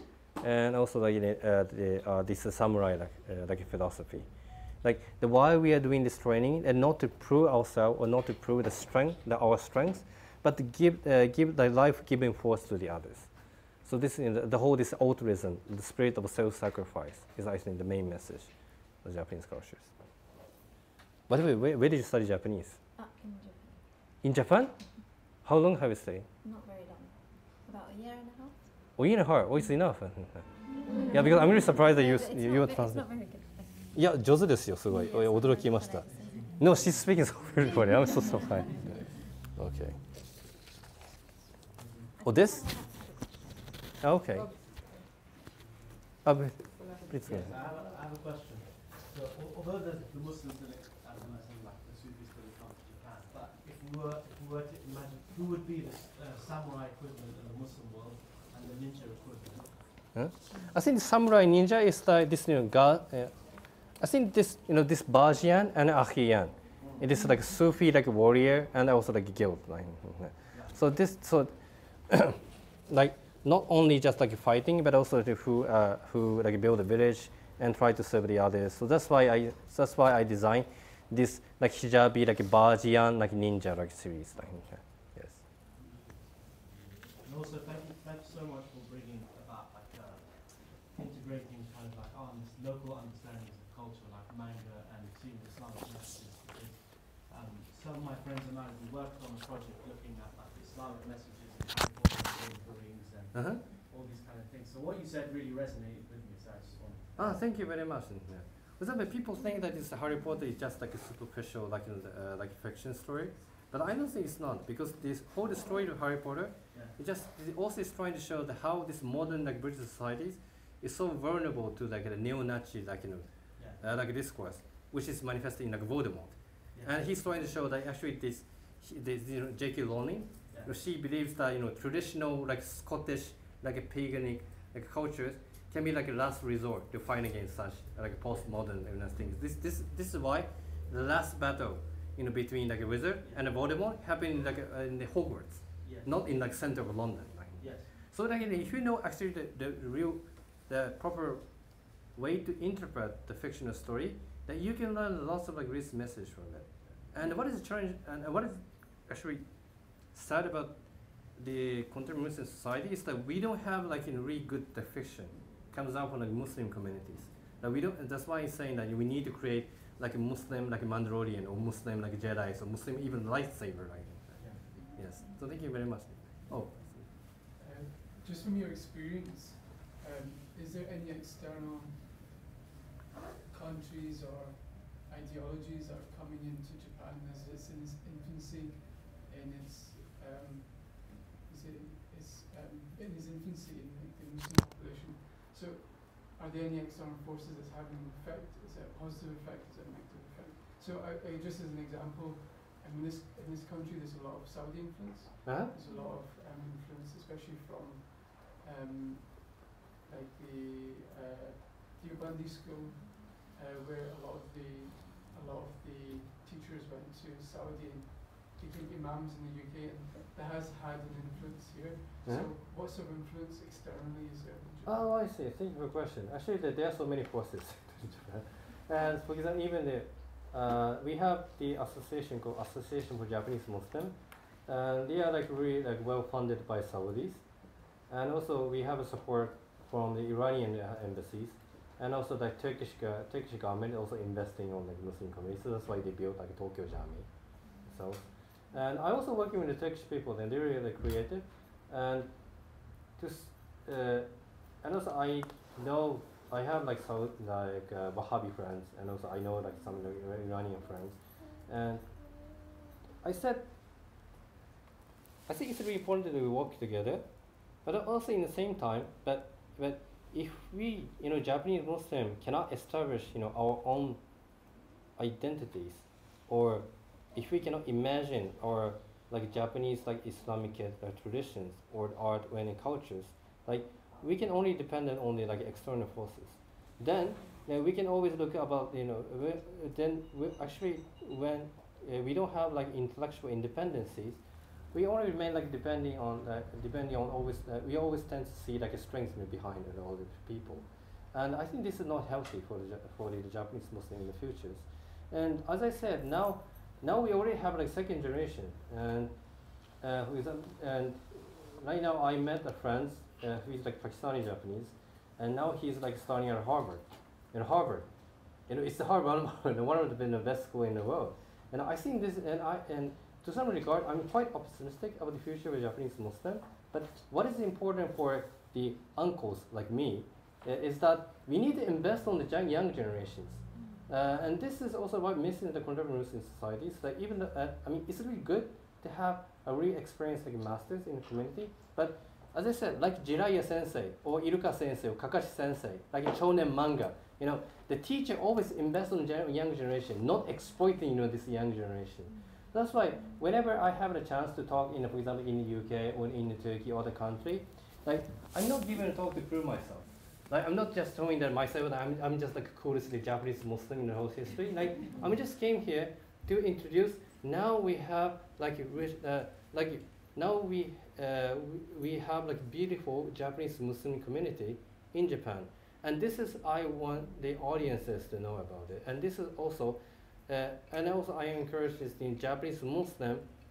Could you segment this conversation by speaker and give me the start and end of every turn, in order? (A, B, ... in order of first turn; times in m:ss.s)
0:00.4-0:04.3 A
0:04.8-0:13.3 A
0:13.8-0:18.5 A
0:19.0-0:19.9 A
0:21.3-0:22.8 A
0:23.0-0:23.8 B
0:24.2-0:24.7 A
0:25.4-0:26.3 A
0:26.4-0:28.7 B
0:29.0-0:30.5 A
0:30.8-0:34.0 B
0:31.1-0:33.0 A
0:34.0-0:40.0 A
0:34.9-0:36.6 B
0:37.8-0:38.8 B
0:42.2-0:43.6 B
0:42.2-0:42.7 A
0:44.0-0:44.5 A
0:46.2-0:47.5 A
0:47.3-0:59.9 C
1:00.1-1:03.5 A
1:04.0-1:11.5 A
1:06.8-1:07.1 C
1:12.1-1:25.4 A
1:27.1-1:47.4 C
1:43.3-1:43.6 A
1:47.2-2:54.4 A
2:06.7-2:07.0 C
2:10.5-2:10.7 C
2:25.8-2:26.3 C
2:27.6-2:27.9 C
2:55.0-2:57.0 A
2:57.6-3:02.4 D
3:03.4-3:44.9 D
3:25.4-3:25.7 A
3:42.2-3:42.5 A
3:44.8-3:57.5 A
3:58.1-4:07.3 A
4:07.8-4:22.1 A
4:23.2-4:23.7 A
4:25.5-4:34.2 A
4:35.2-4:54.4 A
4:54.9-5:18.1 A
5:18.7-6:23.6 A